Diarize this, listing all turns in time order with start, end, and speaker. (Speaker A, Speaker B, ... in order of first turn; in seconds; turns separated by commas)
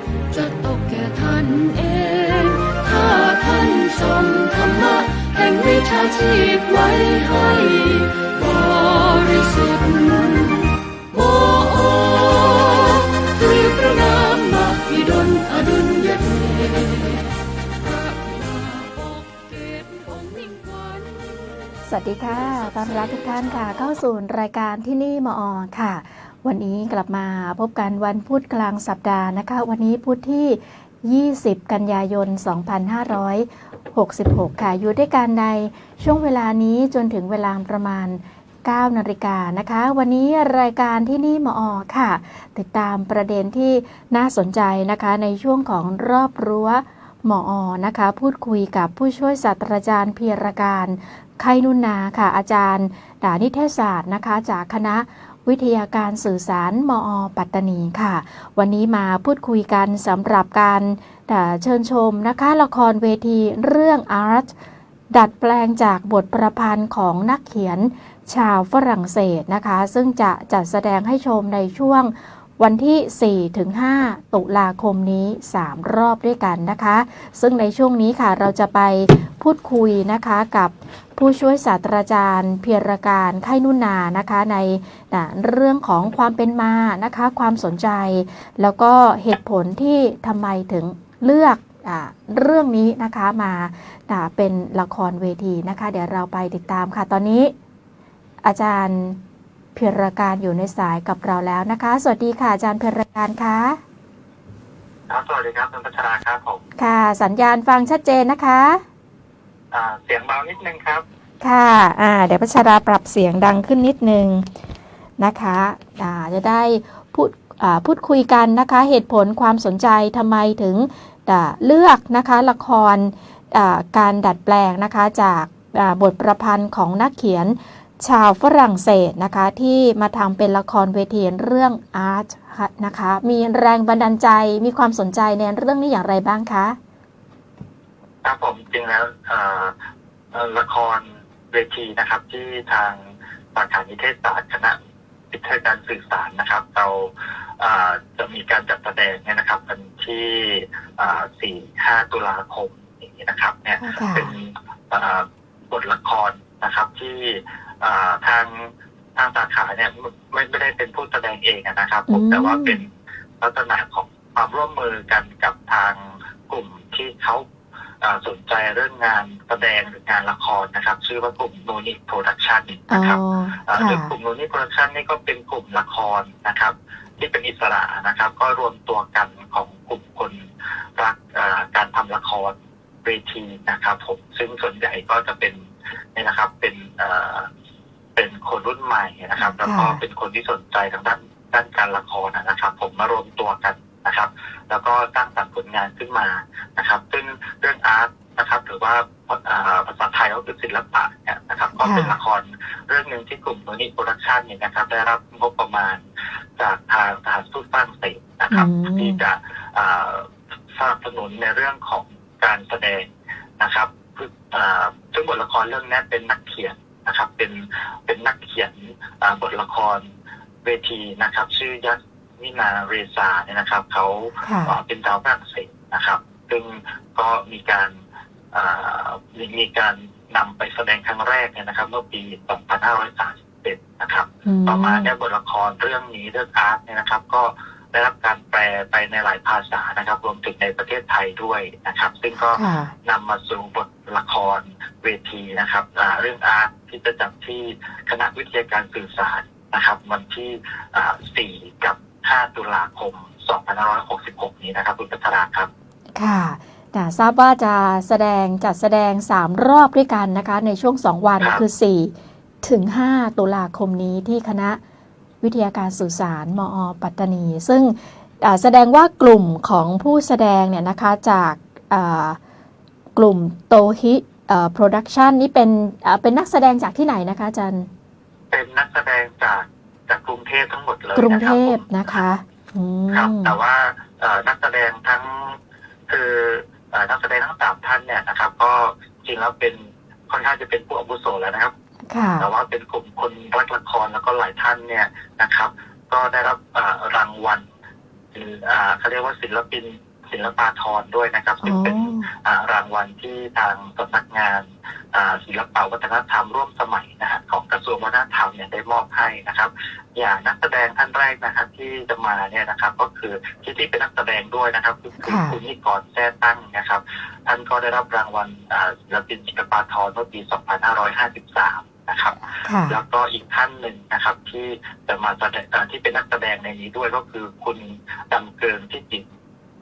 Speaker A: 0.3-21.7, Speaker B: 21.9-64.5, Speaker A: 22.3-23.8, Speaker B: 65.1-97.5, Speaker B: 98.4-99.2, Speaker B: 99.8-103.8, Speaker C: 105.1-106.6, Speaker B: 106.8-108.8, Speaker C: 109.7-111.0, Speaker B: 111.4-114.5, Speaker B: 115.2-136.8, Speaker C: 138.2-139.8, Speaker C: 140.3-143.0, Speaker C: 143.6-144.8, Speaker C: 145.3-162.9, Speaker B: 153.8-154.3, Speaker B: 162.1-162.8, Speaker C: 163.4-167.5, Speaker C: 168.0-180.4, Speaker B: 172.9-174.1, Speaker C: 181.0-187.5, Speaker C: 188.2-206.0, Speaker B: 189.6-190.0, Speaker B: 201.8-202.2, Speaker C: 206.6-220.1, Speaker B: 208.5-209.2, Speaker C: 220.6-227.9, Speaker B: 224.4-224.8, Speaker C: 228.5-255.7, Speaker B: 234.5-235.1, Speaker B: 242.5-242.9, Speaker B: 256.2-264.8, Speaker B: 265.4-272.4, Speaker B: 273.2-277.9, Speaker C: 278.5-281.8, Speaker B: 281.1-283.6, Speaker C: 283.1-285.6, Speaker C: 286.1-291.7, Speaker B: 292.1-292.5, Speaker C: 292.4-297.7, Speaker C: 298.3-329.2, Speaker B: 301.6-302.3, Speaker B: 315.2-315.6, Speaker B: 322.6-323.0